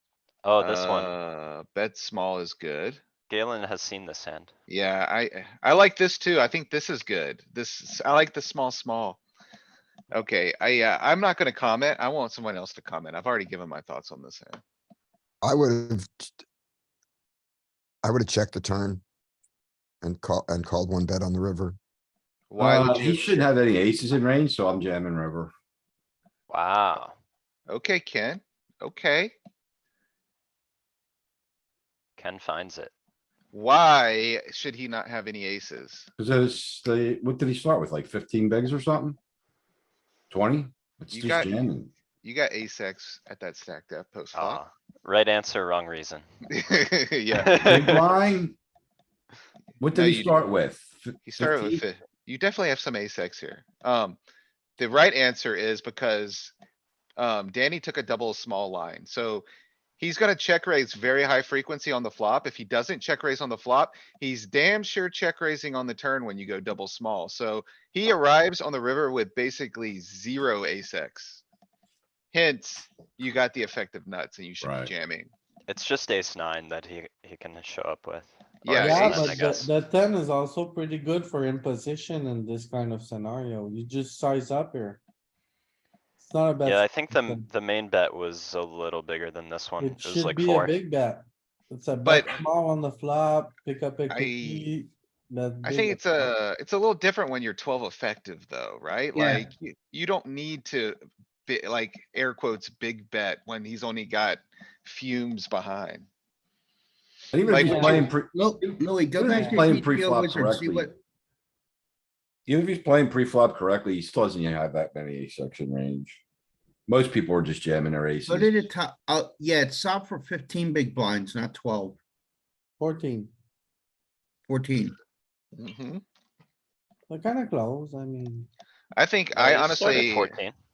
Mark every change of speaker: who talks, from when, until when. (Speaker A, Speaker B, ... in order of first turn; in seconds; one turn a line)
Speaker A: 0.4-1.1
Speaker B: 0.6-3.0
Speaker A: 3.3-4.5
Speaker B: 4.7-9.2
Speaker B: 10.1-14.6
Speaker C: 15.4-16.4
Speaker C: 18.0-19.0
Speaker C: 20.0-21.8
Speaker B: 22.5-23.5
Speaker D: 22.6-25.5
Speaker A: 26.5-27.1
Speaker B: 27.7-29.3
Speaker A: 32.2-32.9
Speaker B: 33.5-36.1
Speaker D: 36.2-39.2
Speaker D: 40.3-41.9
Speaker B: 41.1-41.6
Speaker B: 42.2-44.6
Speaker A: 44.3-46.2
Speaker B: 46.5-47.6
Speaker A: 47.4-48.1
Speaker D: 47.6-48.6
Speaker D: 49.8-51.8
Speaker B: 49.9-50.4
Speaker B: 51.2-54.2
Speaker B: 54.8-56.5
Speaker B: 57.2-59.5
Speaker B: 60.0-71.4
Speaker B: 72.3-75.3
Speaker D: 74.6-74.9
Speaker A: 75.7-79.7
Speaker B: 78.6-79.4
Speaker E: 78.7-85.0
Speaker E: 86.2-87.5
Speaker A: 86.7-90.8
Speaker E: 89.8-96.3
Speaker B: 92.0-92.4
Speaker B: 94.1-94.7
Speaker B: 95.6-106.1
Speaker F: 99.2-99.5
Speaker D: 107.3-110.9
Speaker B: 107.5-107.8
Speaker F: 107.6-111.0
Speaker E: 107.7-108.0
Speaker E: 109.3-109.6
Speaker D: 112.5-116.2
Speaker D: 116.9-118.7
Speaker F: 118.3-122.0
Speaker E: 122.8-123.3
Speaker F: 124.5-125.0
Speaker B: 125.6-126.0
Speaker E: 127.1-128.5
Speaker B: 128.9-130.3
Speaker A: 129.4-130.5